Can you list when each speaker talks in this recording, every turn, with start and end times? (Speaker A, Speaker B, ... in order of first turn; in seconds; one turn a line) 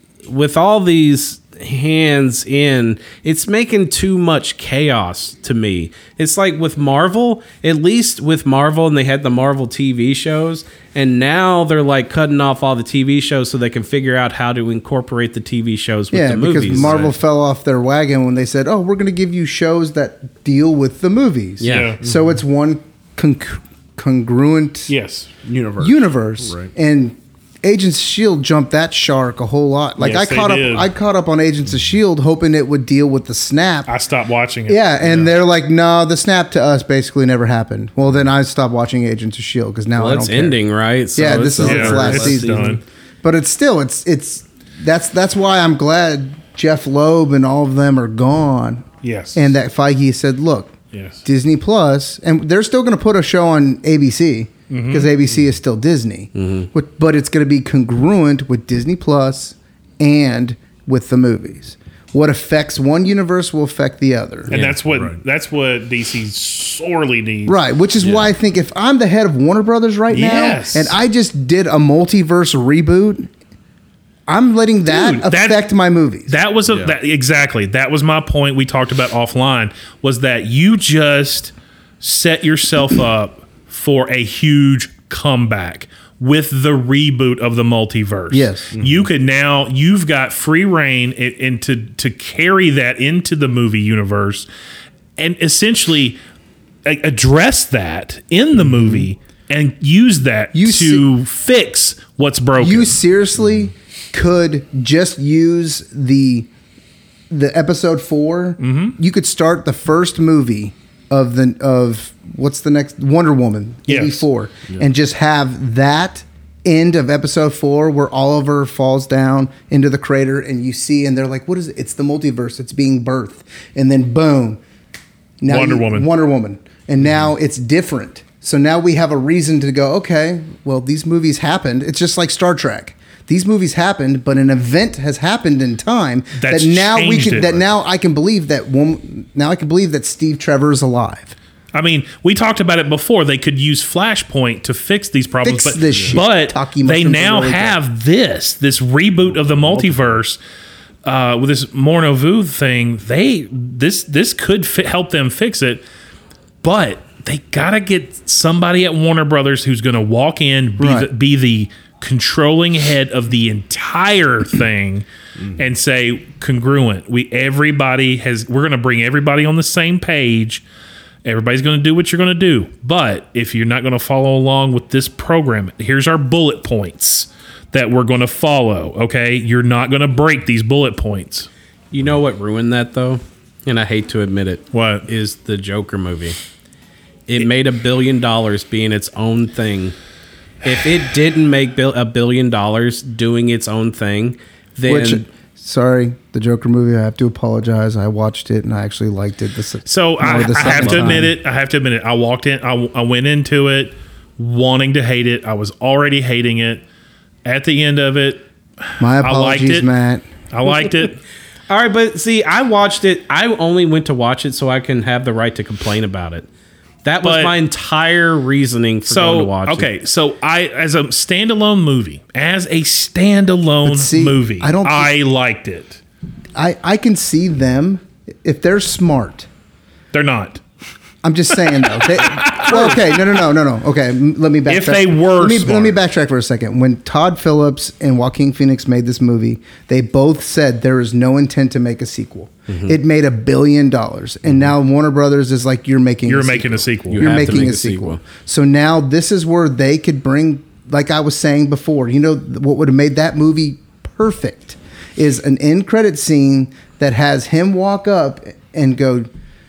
Speaker A: 0.2-17.0
Speaker B: 16.1-24.9
Speaker C: 16.8-17.1
Speaker A: 21.6-21.9
Speaker D: 21.6-22.0
Speaker D: 24.9-25.3
Speaker C: 25.4-26.7
Speaker B: 25.8-33.9
Speaker D: 30.0-30.9
Speaker D: 33.9-35.3
Speaker B: 34.7-40.6
Speaker A: 40.0-42.2
Speaker B: 41.1-64.5
Speaker C: 41.5-42.8
Speaker D: 41.6-42.8
Speaker D: 49.0-49.5
Speaker D: 50.9-51.2
Speaker D: 54.7-55.1
Speaker A: 56.3-56.7
Speaker C: 64.5-65.2
Speaker D: 64.5-67.6
Speaker B: 67.5-73.3
Speaker C: 68.0-68.2
Speaker D: 70.1-71.0
Speaker B: 74.3-76.4
Speaker D: 74.9-75.6
Speaker D: 76.3-94.5
Speaker C: 76.7-76.9
Speaker B: 88.3-88.7
Speaker C: 88.7-89.1
Speaker D: 95.2-96.2
Speaker D: 96.8-103.0
Speaker B: 100.5-101.1
Speaker B: 102.6-106.5
Speaker B: 107.3-124.6
Speaker D: 108.6-109.0
Speaker D: 113.9-114.2
Speaker B: 125.4-141.3
Speaker D: 125.5-126.1
Speaker D: 136.3-137.7
Speaker D: 141.7-150.4
Speaker B: 145.4-147.8
Speaker C: 145.9-146.2
Speaker C: 149.3-150.2
Speaker D: 151.0-155.8
Speaker D: 156.6-170.6
Speaker B: 160.8-161.1
Speaker D: 171.2-181.5
Speaker A: 181.9-186.4
Speaker D: 184.7-185.1
Speaker A: 187.3-189.9
Speaker A: 190.6-195.2
Speaker B: 194.8-201.3
Speaker D: 199.8-206.8
Speaker D: 207.4-208.4
Speaker B: 209.0-210.2
Speaker D: 209.0-209.9
Speaker D: 210.5-211.2
Speaker A: 211.7-216.4
Speaker A: 217.0-219.9
Speaker D: 217.2-217.5
Speaker D: 219.1-226.0
Speaker B: 223.8-225.1
Speaker B: 226.5-229.5
Speaker D: 230.1-230.6
Speaker B: 231.2-259.3
Speaker D: 232.0-233.2
Speaker D: 234.7-236.0
Speaker A: 242.7-243.0
Speaker D: 246.3-247.6
Speaker A: 247.1-248.2